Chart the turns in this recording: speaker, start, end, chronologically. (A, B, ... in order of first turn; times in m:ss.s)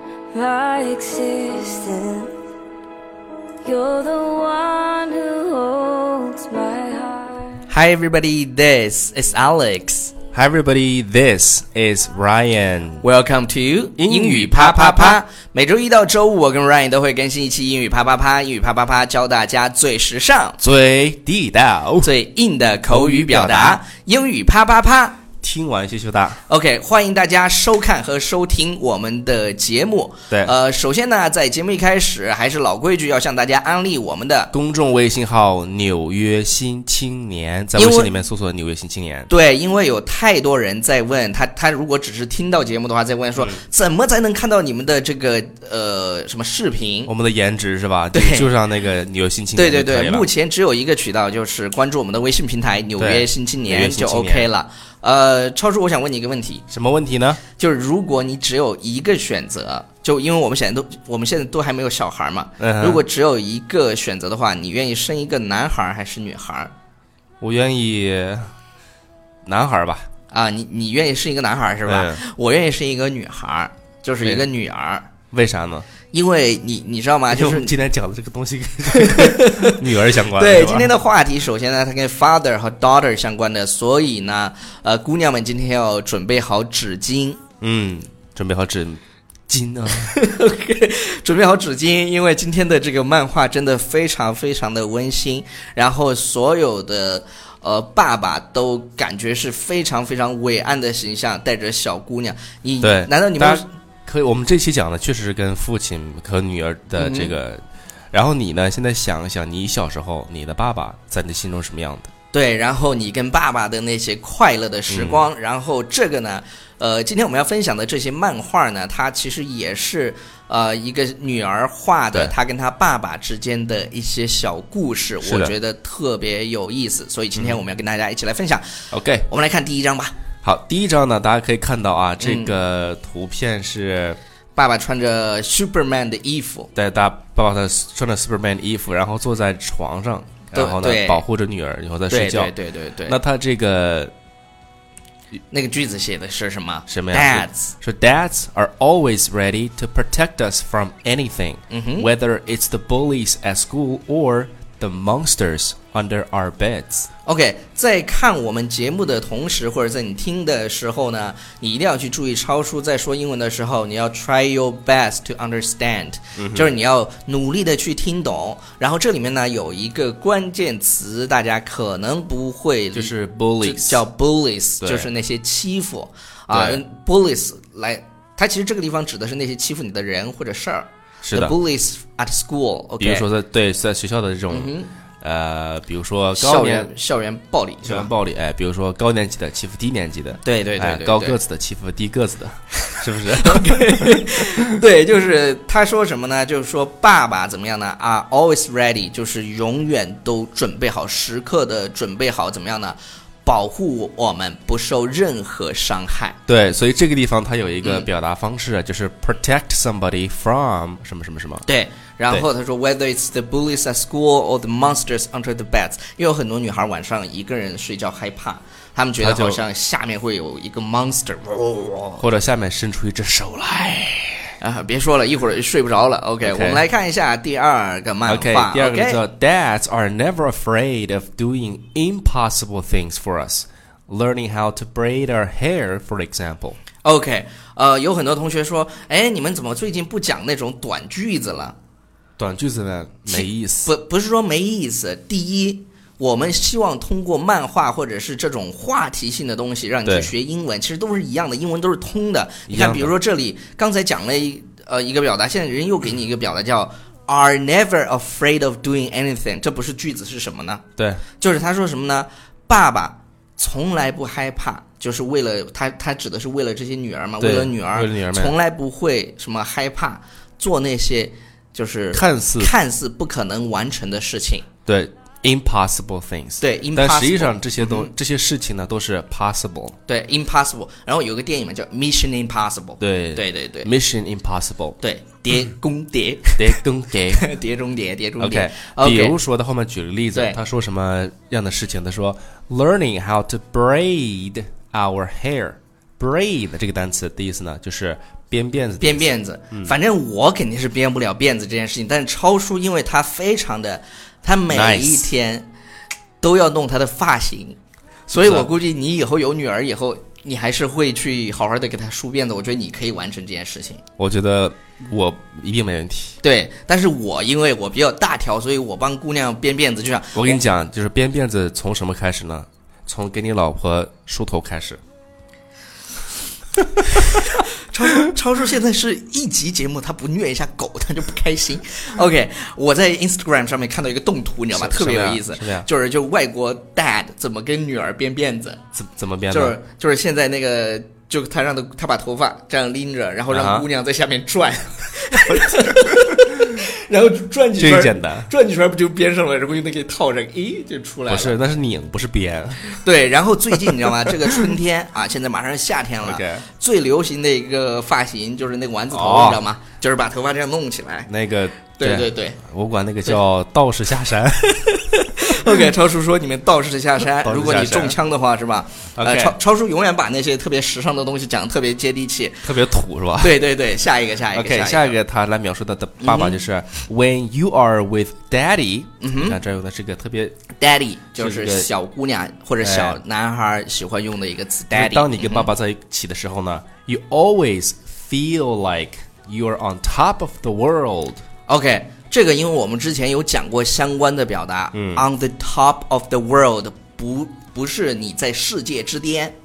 0:00.3-0:02.3 A
0:03.6-0:07.6 A
0:07.7-0:10.1 B
0:10.3-0:13.0 C
0:13.0-0:20.6 B
0:14.0-0:15.2 C
0:20.6-0:22.1 C
0:22.0-0:25.2 B
0:22.9-0:23.8 C
0:25.4-0:26.4 C
0:26.5-0:34.5 B
0:30.3-0:30.5 C
0:34.5-0:39.3 C
0:37.7-0:38.1 B
0:39.3-0:47.1 B
0:47.1-0:50.3 C
0:48.1-0:48.5 B
0:49.5-0:56.6 B
0:53.0-0:54.5 C
0:56.7-0:57.4 C
0:57.6-1:06.7 B
1:02.6-1:03.0 C
1:07.4-1:08.5 C
1:09.4-1:10.1 C
1:10.3-1:15.1 B
1:11.8-1:12.2 C
1:15.3-1:15.9 C
1:16.1-1:17.7 B
1:17.3-1:20.9 C
1:18.9-1:27.4 B
1:27.6-1:30.1 C
1:30.0-1:43.7 B
1:42.8-1:52.1 C
1:47.0-1:47.3 B
1:52.3-2:10.1 B
1:54.9-1:55.2 C
2:05.2-2:05.5 C
2:08.9-2:09.3 C
2:10.4-2:14.2 C
2:12.2-2:12.5 B
2:14.6-2:16.7 B
2:16.7-2:22.5 C
2:20.5-2:21.2 B
2:22.1-2:23.2 B
2:23.1-2:24.1 C
2:25.5-2:27.7 B
2:26.9-2:37.1 C
2:31.7-2:32.1 B
2:37.2-3:03.2 B
2:46.4-2:46.7 C
2:52.9-2:54.0 C
2:54.8-2:55.1 C
2:56.5-2:56.8 C
3:01.2-3:01.5 C
3:03.0-3:06.9 C
3:04.5-3:04.9 B
3:06.3-3:08.1 B
3:07.8-3:14.8 C
3:10.4-3:11.4 B
3:12.8-3:26.4 B
3:26.5-3:31.6 C
3:27.8-3:28.1 B
3:31.6-3:42.2 B
3:39.2-3:39.6 C
3:42.2-3:44.6 C
3:44.6-3:49.2 B
3:46.4-3:46.8 C
3:48.2-3:56.8 C
3:57.0-4:01.8 B
4:02.4-4:03.9 C
4:03.3-4:20.8 B
4:10.0-4:10.3 C
4:12.7-4:13.1 C
4:21.0-4:21.2 C
4:21.4-4:34.7 B
4:27.4-4:28.5 C
4:32.1-4:32.7 C
4:34.8-4:40.0 C
4:36.6-4:38.1 B
4:40.0-4:43.9 B
4:43.0-4:45.0 C
4:45.0-4:46.8 B
4:46.6-4:47.5 C
4:47.4-4:49.4 B
4:48.4-4:59.9 C
4:50.3-4:50.6 B
4:59.0-5:05.7 B
5:04.7-5:05.3 C
5:06.4-5:07.8 B
5:08.3-5:14.0 B
5:08.3-5:08.7 C
5:14.2-5:16.4 C
5:16.4-5:20.6 B
5:20.3-5:25.0 C
5:27.8-5:38.8 B
5:34.7-5:35.9 C
5:38.9-5:39.8 C
5:39.5-5:51.6 B
5:43.5-5:43.8 C
5:47.8-5:48.5 C
5:51.3-5:53.0 C
5:52.9-6:01.3 B
5:56.2-5:56.7 C
5:59.1-5:59.6 C
6:01.3-6:04.9 C
6:02.0-6:02.6 B
6:04.8-6:12.7 B
6:05.6-6:05.8 C
6:07.4-6:08.2 C
6:09.2-6:09.6 C
6:12.6-6:13.6 C
6:13.4-6:15.2 B
6:14.5-6:20.6 C
6:16.2-6:16.6 B
6:19.2-6:19.6 B
6:20.8-6:25.7 B
6:21.4-6:21.9 C
6:22.8-6:23.2 C
6:24.9-6:31.4 C
6:31.7-6:39.5 B
6:34.9-6:35.2 C